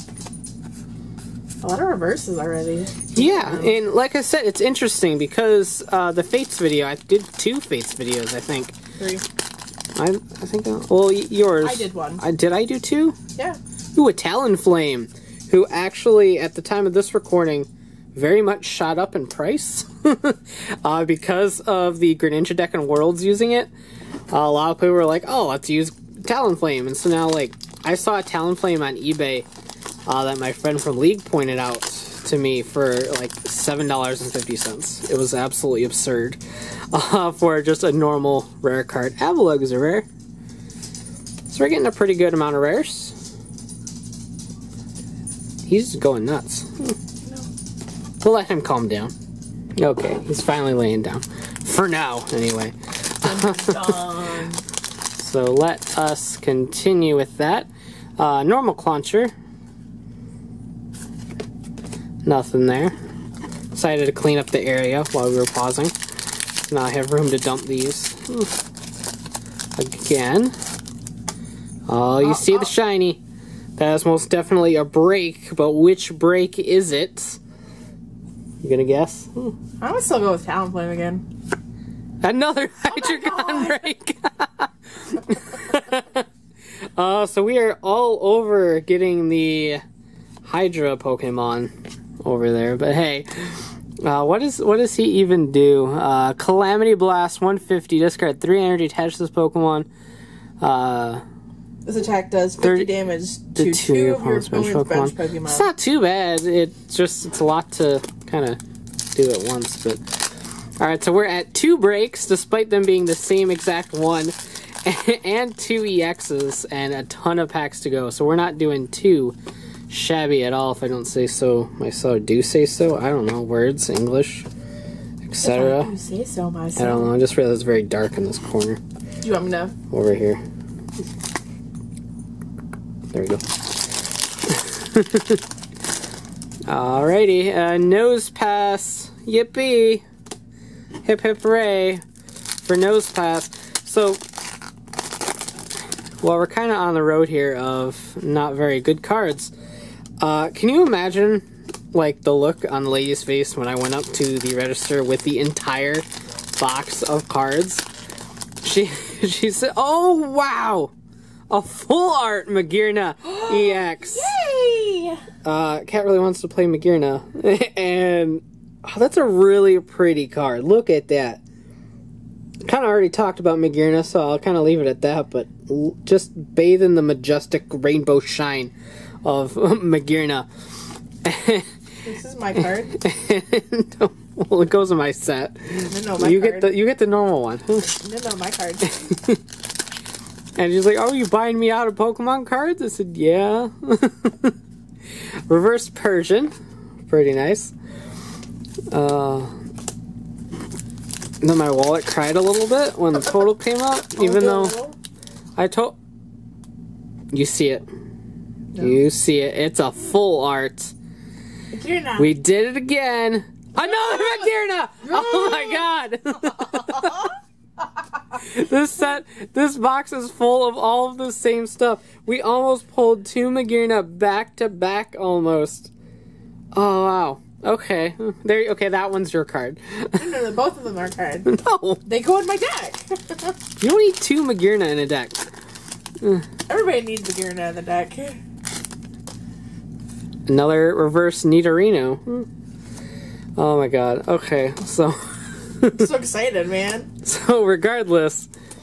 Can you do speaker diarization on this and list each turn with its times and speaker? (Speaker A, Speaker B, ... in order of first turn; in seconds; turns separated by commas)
Speaker A: 1.6-3.7, Speaker B: 3.1-8.8, Speaker A: 9.0-9.2, Speaker B: 9.9-13.2, Speaker A: 11.6-12.2, Speaker B: 13.9-23.7, Speaker B: 24.3-29.5, Speaker B: 30.1-36.4, Speaker B: 36.9-40.1, Speaker B: 41.5-43.1, Speaker B: 45.6-46.9, Speaker B: 48.2-49.1, Speaker B: 49.8-54.1, Speaker A: 53.2-54.6, Speaker B: 55.2-59.3, Speaker B: 62.2-62.9, Speaker B: 63.7-65.9, Speaker B: 66.6-68.5, Speaker B: 69.8-70.5, Speaker B: 71.9-73.2, Speaker A: 72.2-72.7, Speaker B: 73.8-77.4, Speaker B: 78.6-79.5, Speaker A: 79.8-81.2, Speaker B: 82.2-86.2, Speaker A: 82.9-83.8, Speaker B: 87.0-89.8, Speaker B: 90.4-91.7, Speaker B: 92.2-99.9, Speaker B: 100.6-101.2, Speaker A: 101.8-105.7, Speaker B: 102.6-102.9, Speaker B: 103.5-108.6, Speaker B: 109.1-110.0, Speaker B: 110.8-119.3, Speaker B: 119.9-124.5, Speaker B: 125.2-125.9, Speaker A: 125.4-127.1, Speaker B: 126.8-128.8, Speaker A: 129.2-129.7, Speaker B: 129.9-130.4, Speaker B: 133.1-133.4, Speaker B: 134.5-135.4, Speaker B: 136.7-140.0, Speaker B: 141.0-142.0, Speaker B: 142.6-144.2, Speaker B: 146.2-149.5, Speaker B: 150.2-156.1, Speaker B: 156.6-157.8, Speaker B: 158.6-160.9, Speaker B: 161.5-164.3, Speaker A: 163.3-165.2, Speaker B: 165.4-171.4, Speaker B: 172.6-178.7, Speaker B: 179.2-180.5, Speaker B: 181.2-181.7, Speaker A: 182.0-183.0, Speaker B: 182.9-187.9, Speaker A: 185.9-186.7, Speaker A: 187.9-189.1, Speaker B: 189.0-189.4, Speaker B: 190.6-194.5, Speaker B: 195.5-196.5, Speaker B: 197.1-197.7, Speaker B: 198.9-199.5, Speaker B: 201.4-204.8, Speaker A: 204.2-204.9, Speaker B: 205.6-205.9, Speaker B: 207.3-207.9, Speaker A: 208.7-209.0, Speaker B: 208.8-210.9, Speaker A: 211.7-212.3, Speaker B: 212.2-217.3, Speaker A: 213.8-214.5, Speaker A: 215.0-215.8, Speaker A: 216.7-217.2, Speaker B: 218.3-225.9, Speaker B: 226.7-230.4, Speaker A: 230.2-233.6, Speaker B: 231.5-232.0, Speaker B: 233.8-235.4, Speaker A: 236.7-238.4, Speaker B: 240.5-242.4, Speaker B: 243.6-246.1, Speaker A: 245.9-247.1, Speaker B: 247.2-248.5